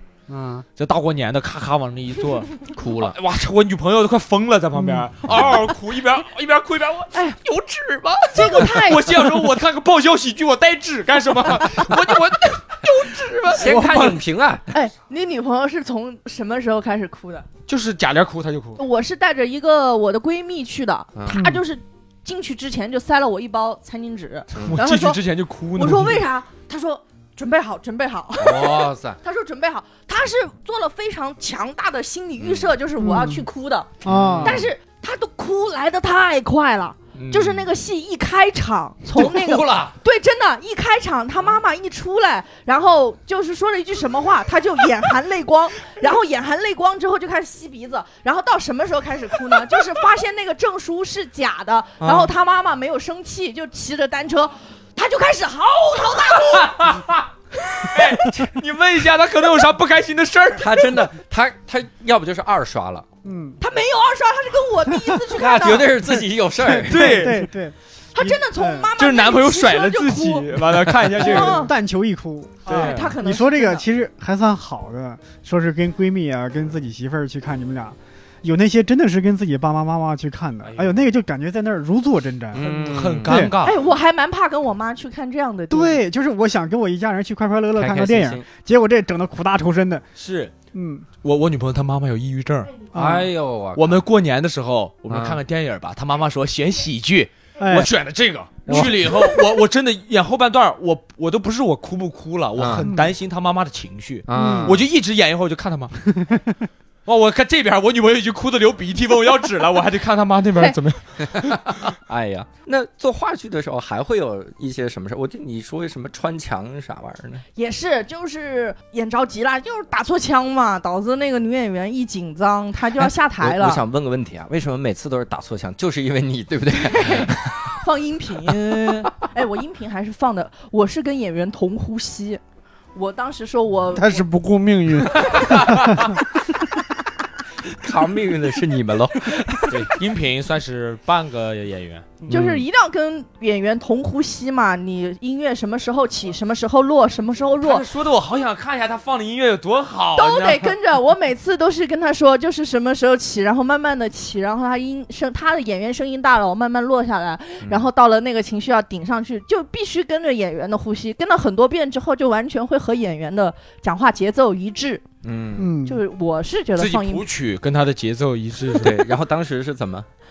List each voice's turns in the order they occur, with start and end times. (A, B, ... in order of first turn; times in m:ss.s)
0:00.3-0:00.6 A
0:00.8-0:14.1 B
0:02.7-0:03.2 C
0:08.3-0:09.3 D
0:12.8-0:14.2 D
0:13.5-0:14.7 C
0:14.7-0:17.5 D
0:17.7-0:18.8 B
0:18.8-0:25.2 D
0:21.1-0:21.4 C
0:21.3-0:21.6 E
0:24.5-0:24.8 C
0:24.6-0:26.2 B
0:25.8-0:56.8 D
0:28.4-0:29.2 C
0:32.4-0:32.7 C
0:33.0-0:33.4 E
0:34.0-0:34.6 E
0:34.1-0:34.7 C
0:34.2-0:34.6 B
0:37.1-0:37.7 B
0:39.1-0:39.9 B
0:52.0-0:52.3 C
0:56.4-0:57.3 B
0:57.6-0:58.1 D
0:57.8-1:01.1 B
1:00.6-1:03.1 C
1:03.2-1:03.6 E
1:03.6-1:06.1 D
1:05.3-1:07.3 C
1:06.6-1:08.9 E
1:06.9-1:07.5 B
1:08.1-1:11.8 D
1:09.0-1:11.7 B
1:11.2-1:22.6 E
1:12.6-1:13.2 B
1:12.6-1:13.8 D
1:20.6-1:21.0 B
1:22.5-1:23.5 C
1:22.6-1:23.8 B
1:23.2-1:23.6 E
1:23.6-1:26.0 D
1:25.7-1:30.0 E
1:27.8-1:28.5 C
1:30.2-1:30.6 B
1:30.7-1:31.1 E
1:31.2-1:32.9 B
1:32.9-1:33.3 E
1:32.9-1:34.0 C
1:33.8-1:46.0 B
1:35.1-1:35.4 C
1:37.6-1:37.9 E
1:38.7-1:39.2 E
1:42.6-1:42.9 C
1:42.8-1:43.1 E
1:44.3-1:44.8 C
1:44.3-1:44.8 E
1:46.2-1:46.4 E
1:47.1-1:51.9 B
1:51.2-1:57.4 C
1:57.5-2:03.8 D
2:03.0-2:07.8 C
2:06.8-2:12.4 D
2:12.9-2:14.2 D
2:13.9-2:15.9 A
2:15.3-2:15.9 B
2:17.7-2:19.9 C
2:19.5-2:22.3 B
2:22.3-2:22.6 C
2:22.3-2:27.8 D
2:27.6-2:30.8 B
2:30.2-2:45.0 D
2:37.6-2:37.9 C
2:45.2-2:45.7 C
2:45.6-2:46.0 E
2:45.8-2:47.2 D
2:46.8-2:49.0 B
2:48.7-2:50.1 C